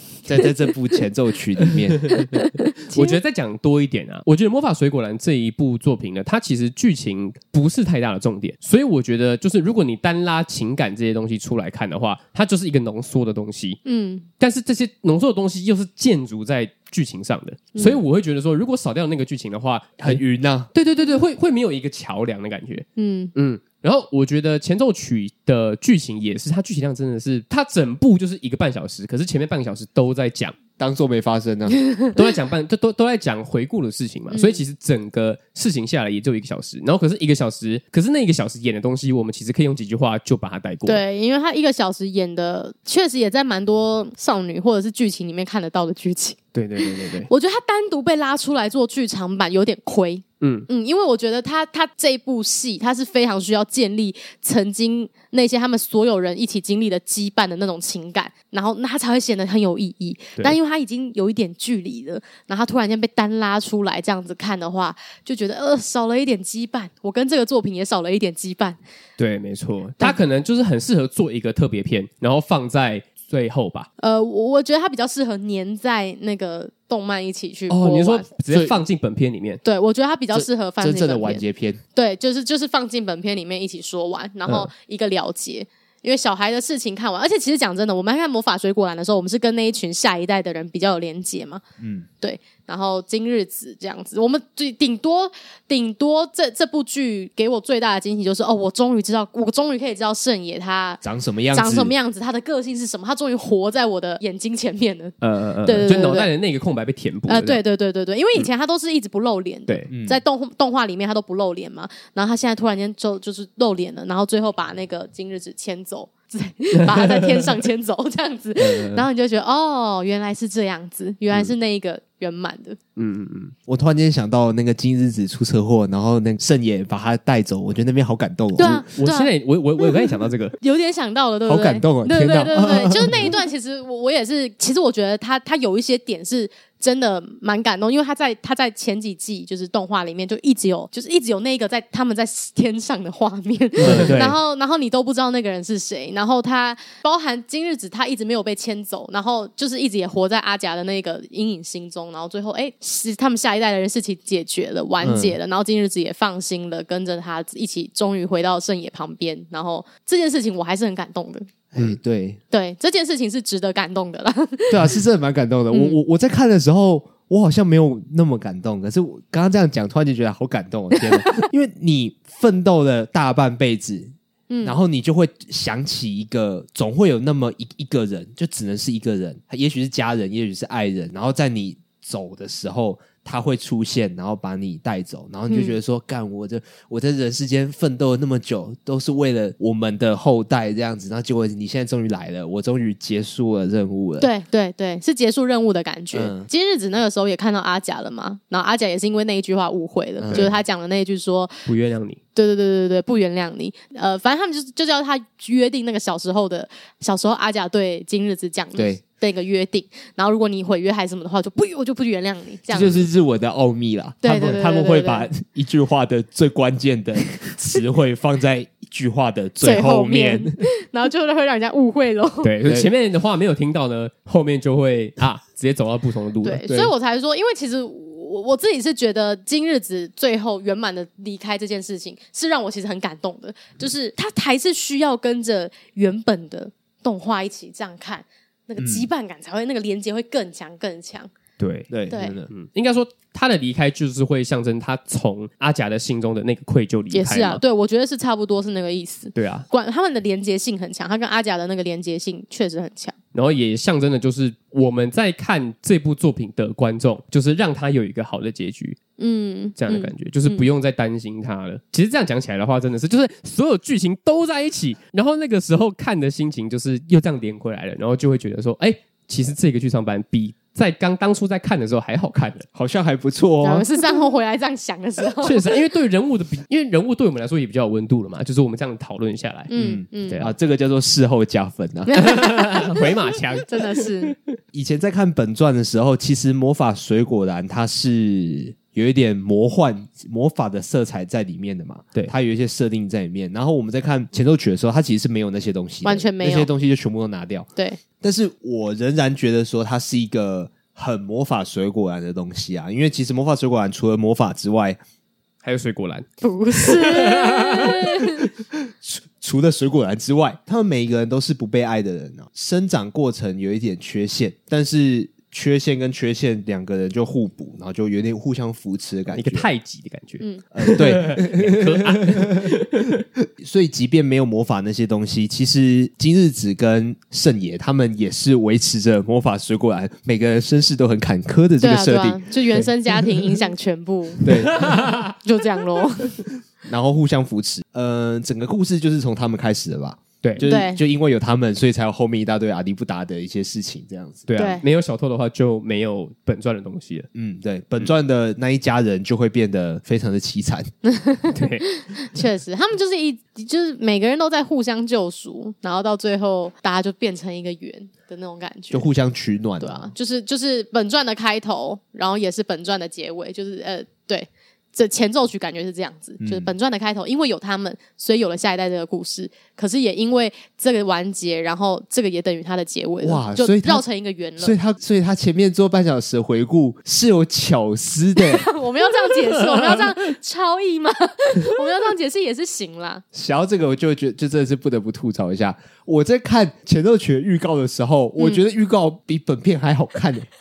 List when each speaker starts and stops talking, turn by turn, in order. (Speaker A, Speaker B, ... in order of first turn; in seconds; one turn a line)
Speaker A: 0.2-2.2
Speaker B: 1.8-2.3
Speaker C: 2.3-3.2
Speaker B: 2.9-13.8
Speaker C: 13.8-14.2
Speaker B: 14.4-20.2
Speaker C: 17.8-18.0
Speaker A: 20.0-20.7
Speaker B: 20.7-30.6
Speaker C: 23.0-23.3
Speaker A: 30.8-31.8
Speaker C: 31.8-32.1
Speaker B: 32.1-41.0
Speaker C: 34.3-34.6
Speaker C: 40.9-68.8
Speaker B: 46.5-47.3
Speaker B: 50.4-50.7
Speaker B: 69.2-73.9
Speaker C: 74.0-78.3
Speaker B: 77.7-79.6
Speaker A: 78.5-78.8
Speaker C: 79.6-81.4
Speaker A: 80.3-81.8
Speaker C: 82.0-91.6
Speaker A: 91.8-92.1
Speaker C: 92.2-106.3
Speaker A: 101.0-101.9
Speaker B: 105.2-107.6
Speaker C: 107.3-122.8
Speaker A: 109.9-110.2
Speaker B: 116.8-117.5
Speaker B: 118.6-119.1
Speaker B: 123.0-123.5
Speaker A: 123.7-128.8
Speaker C: 128.6-130.1
Speaker B: 128.6-130.6
Speaker C: 130.6-161.9
Speaker A: 131.5-133.3
Speaker B: 143.8-144.2
Speaker A: 143.8-144.4
Speaker A: 155.0-155.4
Speaker A: 161.7-162.4
Speaker C: 162.5-164.9
Speaker A: 164.7-194.3
Speaker C: 165.7-166.0
Speaker C: 174.5-174.8
Speaker C: 185.5-185.8
Speaker C: 194.2-201.7
Speaker A: 196.1-196.5
Speaker A: 200.2-200.5
Speaker B: 201.7-202.2
Speaker C: 202.3-213.1
Speaker A: 208.8-209.0
Speaker A: 212.7-220.6
Speaker C: 214.2-215.3
Speaker C: 219.6-222.5
Speaker B: 222.4-226.7
Speaker A: 222.7-222.9
Speaker C: 226.4-241.3
Speaker A: 238.8-239.1
Speaker B: 241.6-241.9
Speaker A: 241.9-242.5
Speaker C: 242.1-242.4
Speaker B: 242.5-247.6
Speaker C: 247.1-253.2
Speaker B: 249.3-249.7
Speaker B: 253.3-259.0
Speaker C: 259.2-260.7
Speaker B: 259.8-272.7
Speaker A: 272.8-273.9
Speaker C: 273.6-275.7
Speaker B: 275.4-279.7
Speaker C: 279.7-280.4
Speaker A: 279.8-282.2
Speaker B: 280.3-280.5
Speaker C: 282.1-283.0
Speaker B: 282.1-284.4
Speaker C: 283.7-284.3
Speaker A: 284.7-297.7
Speaker C: 296.0-296.7
Speaker A: 298.2-305.0
Speaker B: 305.6-306.3
Speaker C: 306.4-308.5
Speaker B: 306.8-308.0
Speaker A: 308.7-319.7
Speaker B: 319.3-323.2
Speaker A: 320.8-332.4
Speaker C: 331.8-334.4
Speaker A: 334.4-334.8
Speaker B: 334.4-335.4
Speaker C: 335.4-336.4
Speaker A: 336.9-344.5
Speaker C: 340.6-341.0
Speaker B: 344.5-347.3
Speaker C: 344.6-344.8
Speaker A: 347.3-350.9
Speaker C: 351.0-359.1
Speaker B: 351.5-351.9
Speaker A: 358.9-360.1
Speaker C: 359.8-374.8
Speaker A: 366.4-366.7
Speaker A: 373.2-374.1
Speaker A: 374.6-378.7
Speaker C: 378.4-383.2
Speaker A: 383.3-390.5